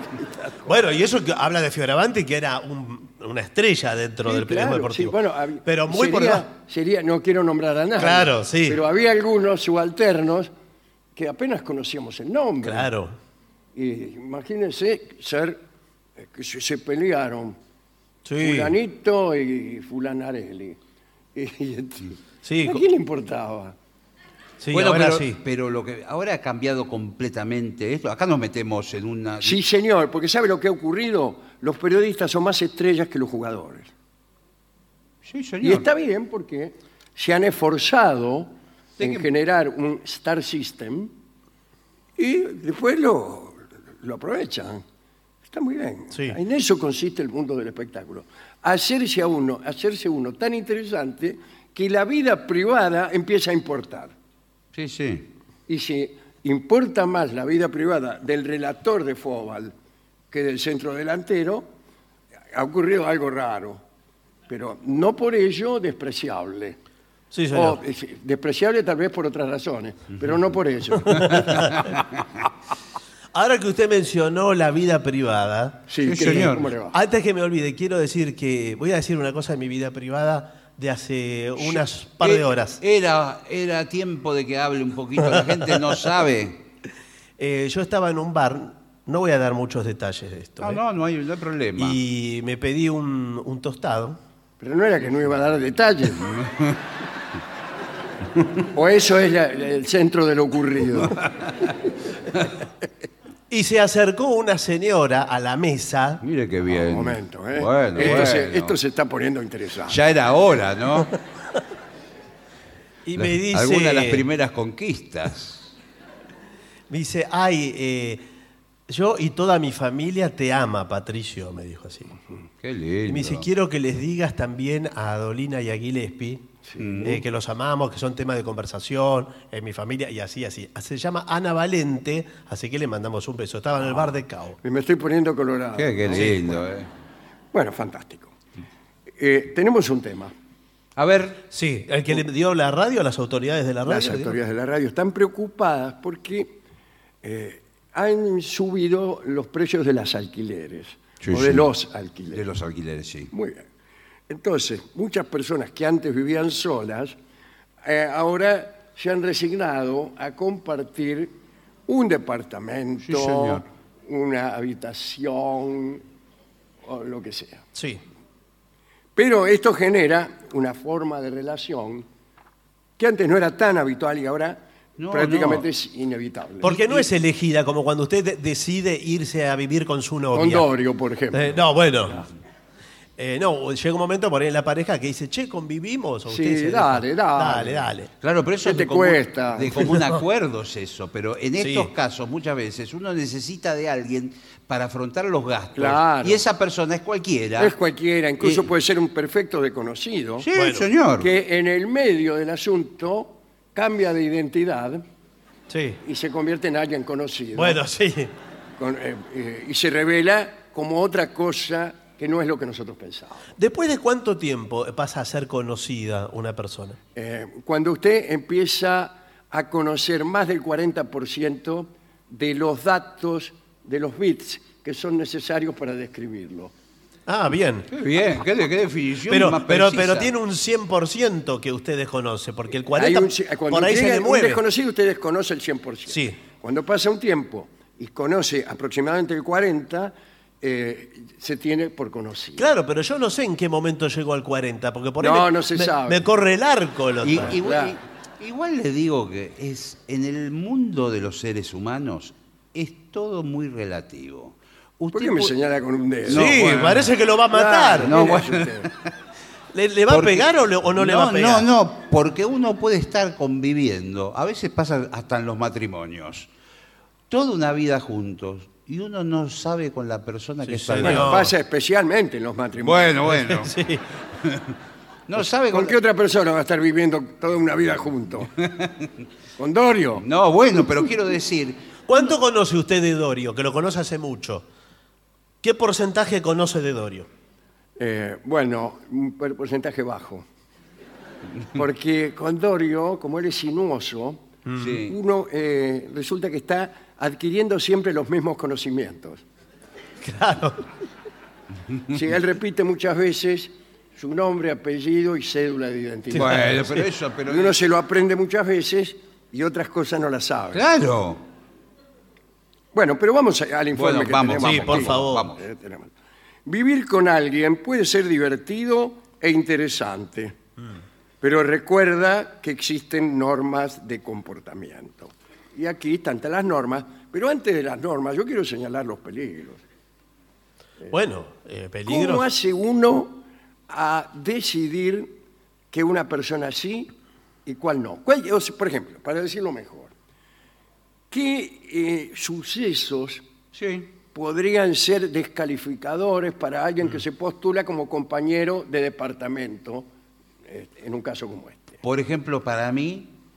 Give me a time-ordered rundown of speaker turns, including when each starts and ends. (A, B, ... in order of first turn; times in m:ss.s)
0:00.6-0:06.4 A
0:04.2-0:10.5 B
0:08.0-0:08.8 A
0:11.2-0:12.9 B
0:12.6-0:13.2 A
0:13.8-0:15.6 B
0:16.2-0:17.6 B
0:18.2-0:18.8 A
0:18.4-0:20.8 B
0:21.4-0:23.8 B
0:22.4-0:22.8 A
0:24.6-0:25.4 A
0:24.7-0:29.6 C
0:29.4-0:33.9 B
0:35.2-0:35.9 C
0:35.6-0:41.1 B
0:39.0-0:39.3 C
0:42.2-0:44.8 B
0:45.5-0:54.1 B
0:46.1-0:46.4 A
0:54.7-0:55.3 C
0:55.7-0:59.8 B
1:00.3-1:01.7 B
1:02.5-1:03.8 B
1:04.5-1:06.8 B
1:07.3-1:07.8 A
1:07.5-1:11.7 B
1:11.1-1:11.9 A
1:11.6-1:12.0 C
1:13.3-1:22.8 A
1:15.9-1:17.0 B
1:16.0-1:16.7 C
1:21.6-1:26.6 C
1:27.4-1:30.8 A
1:30.6-1:32.0 C
1:31.8-1:34.2 A
1:34.6-1:36.4 B
1:36.3-1:36.8 C
1:38.6-1:41.2 B
1:43.5-1:46.2 A
1:46.2-1:48.8 C
1:46.7-1:50.0 B
1:49.9-1:51.1 C
1:53.0-1:54.3 A
1:53.2-1:55.7 C
1:56.9-1:58.2 A
1:58.9-2:02.2 A
2:02.6-2:03.5 C
2:03.1-2:14.6 A
2:06.7-2:07.1 B
2:06.8-2:07.2 C
2:14.6-2:16.6 B
2:15.8-2:16.9 C
2:17.5-2:18.4 B
2:19.2-2:20.3 B
2:21.0-2:21.4 C
2:21.5-2:24.4 A
2:23.8-2:26.6 B
2:27.2-2:32.4 B
2:31.2-2:31.7 C
2:32.3-2:33.3 C
2:33.3-2:33.6 B
2:34.3-2:37.2 B
2:37.8-2:41.3 B
2:41.9-2:46.0 B
2:43.0-2:43.6 C
2:46.8-2:47.6 B
2:47.8-2:48.0 A
2:49.2-2:52.1 B
2:53.0-2:57.1 B
2:55.0-2:55.7 C
2:56.6-3:00.7 A
3:00.3-3:01.6 B
3:01.3-3:02.3 A
3:03.2-3:08.1 A
3:06.3-3:07.9 B
3:08.2-3:17.7 C
3:08.6-3:10.0 B
3:09.8-3:10.2 A
3:11.6-3:11.9 A
3:15.8-3:16.4 B
3:17.6-3:20.5 B
3:20.4-3:21.3 C
3:20.6-3:20.9 A
3:21.2-3:25.0 B
3:25.7-3:26.0 A
3:26.0-3:27.8 B
3:27.6-3:28.3 A
3:28.8-3:33.5 B
3:33.6-3:37.0 A
3:37.2-3:46.7 B
3:47.3-3:47.9 A
3:47.9-3:50.3 C
3:49.3-3:54.6 A
3:53.0-4:02.7 B
3:56.1-3:56.4 A
4:02.6-4:07.6 A
4:05.2-4:06.3 B
4:07.2-4:15.5 C
4:07.4-4:08.0 B
4:15.1-4:16.6 B
4:16.2-4:17.1 C
4:16.3-4:18.1 A
4:17.5-4:18.9 B
4:18.0-4:18.9 C
4:19.7-4:21.7 A
4:20.1-4:26.5 C
4:27.3-4:31.4 C
4:30.8-4:33.4 B
4:31.0-4:31.5 A
4:32.8-4:33.7 C
4:33.3-4:34.0 A
4:34.4-4:34.7 C
4:35.3-4:36.0 C
4:35.4-4:38.5 B
4:38.6-4:39.1 C
4:39.6-4:40.2 B
4:40.2-4:42.3 C
4:42.1-4:44.7 A
4:45.6-4:47.3 A
4:48.0-4:50.5 B
4:51.8-4:54.5 B
4:54.7-4:55.0 A
4:54.8-4:55.2 C
4:55.1-4:59.4 B
5:00.2-5:00.8 A
5:02.1-5:10.8 B
5:06.3-5:06.6 A
5:06.3-5:07.8 C
5:10.7-5:11.4 C
5:12.9-5:16.1 B
5:13.9-5:15.6 C
5:14.6-5:15.5 A
5:16.7-5:20.6 B
5:21.4-5:29.8 B
5:31.1-5:32.5 A
5:32.1-5:35.4 B
5:35.9-5:37.1 B
5:37.6-5:40.1 B
5:41.3-5:43.4 B
5:43.7-5:44.1 C
5:44.3-5:50.1 B
5:50.6-5:52.0 B
5:52.0-5:53.3 C